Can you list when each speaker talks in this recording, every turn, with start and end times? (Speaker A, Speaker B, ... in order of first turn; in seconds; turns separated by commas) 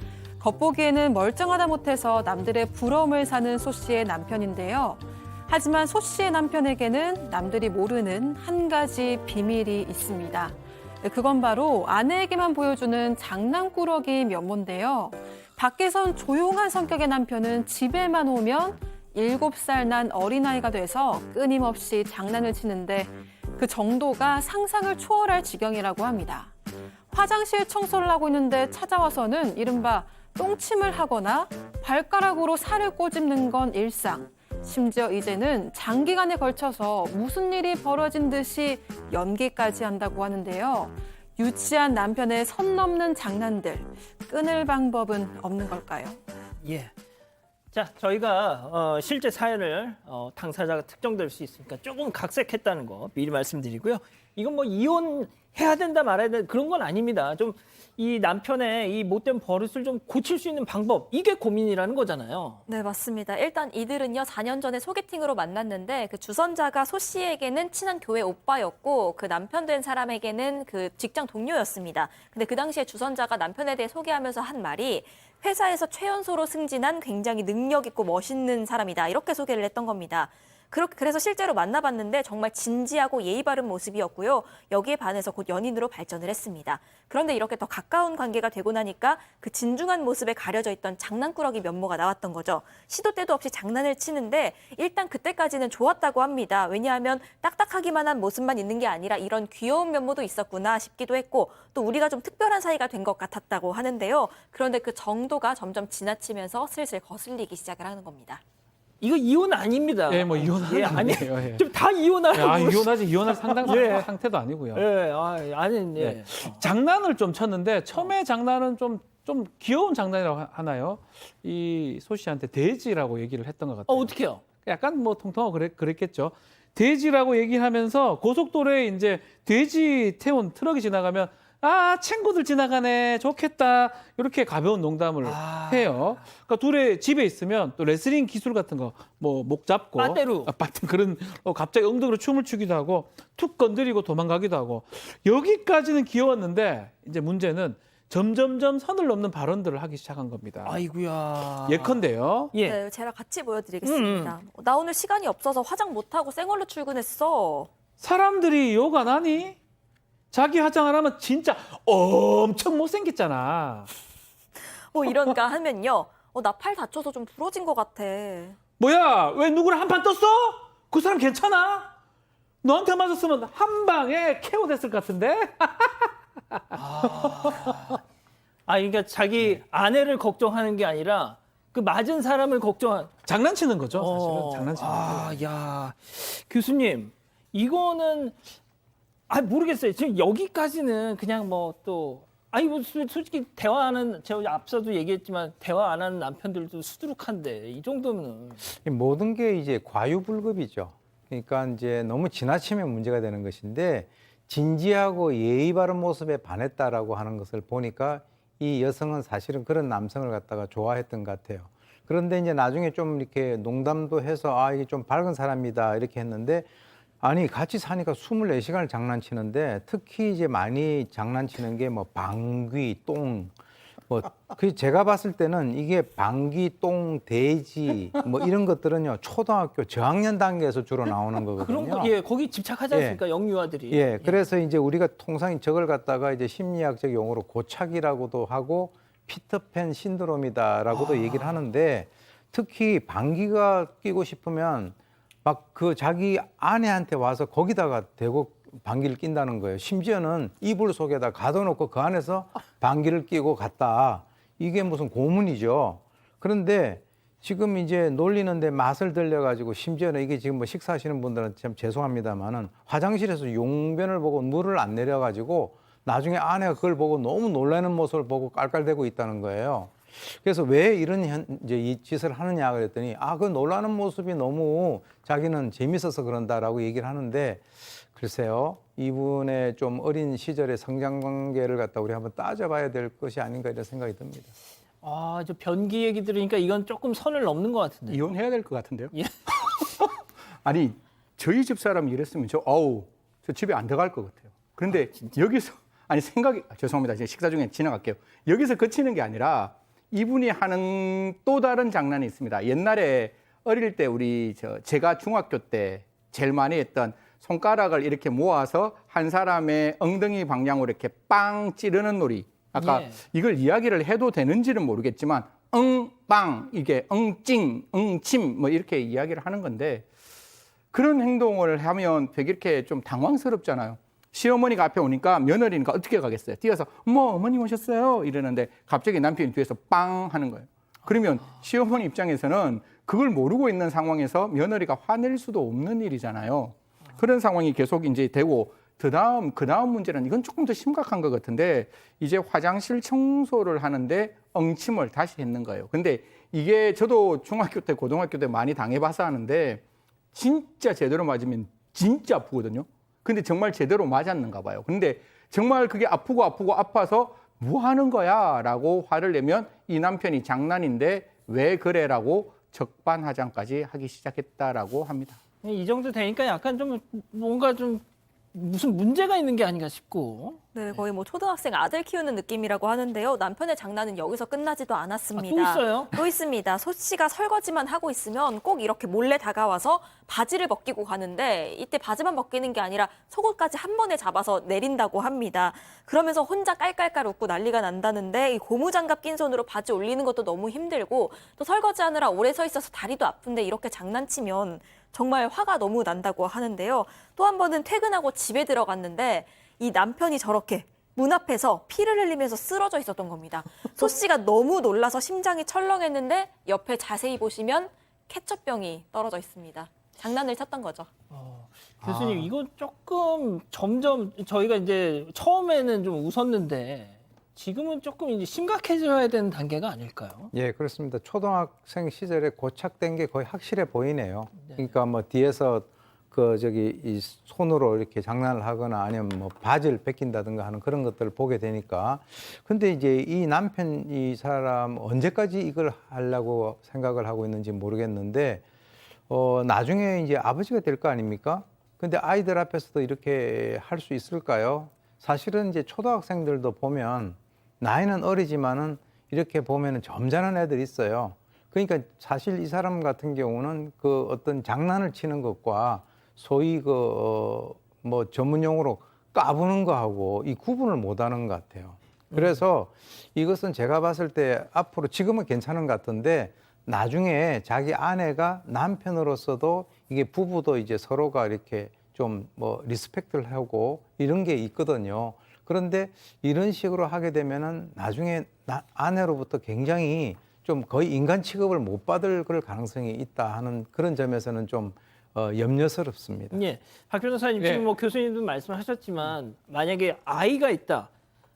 Speaker A: 0.4-26.5, Speaker A: 27.1-46.2, Speaker B: 46.6-46.9, Speaker B: 47.7-62.6, Speaker C: 62.7-108.4, Speaker B: 109.0-114.1, Speaker D: 110.1-111.7, Speaker D: 112.3-114.8, Speaker B: 114.7-116.7, Speaker D: 116.0-150.8, Speaker B: 123.9-124.5, Speaker B: 135.2-136.3, Speaker B: 140.0-140.5, Speaker B: 150.6-152.8, Speaker D: 151.7-152.5, Speaker C: 152.7-157.7, Speaker B: 153.8-154.3, Speaker D: 158.0-159.6, Speaker D: 160.3-163.9, Speaker C: 164.7-168.6, Speaker D: 168.8-171.9, Speaker D: 172.6-177.7, Speaker B: 176.8-178.0, Speaker B: 178.7-183.2, Speaker D: 183.2-185.4, Speaker B: 183.9-188.6, Speaker B: 189.3-198.6, Speaker E: 198.6-216.7, Speaker E: 217.2-223.5, Speaker E: 224.1-232.1, Speaker B: 231.6-234.4, Speaker E: 232.9-233.2, Speaker E: 233.9-284.5, Speaker B: 240.9-241.7, Speaker B: 285.0-288.3, Speaker F: 288.1-320.1, Speaker B: 289.1-289.4, Speaker B: 312.8-313.2, Speaker F: 320.9-349.8, Speaker F: 350.3-365.4, Speaker B: 365.6-370.6, Speaker C: 370.7-411.2, Speaker B: 375.4-376.2, Speaker B: 411.3-420.5, Speaker E: 412.0-412.5, Speaker E: 420.5-438.6, Speaker B: 424.6-424.9, Speaker E: 439.3-486.6, Speaker B: 462.3-462.6, Speaker B: 486.5-491.1, Speaker D: 487.6-487.9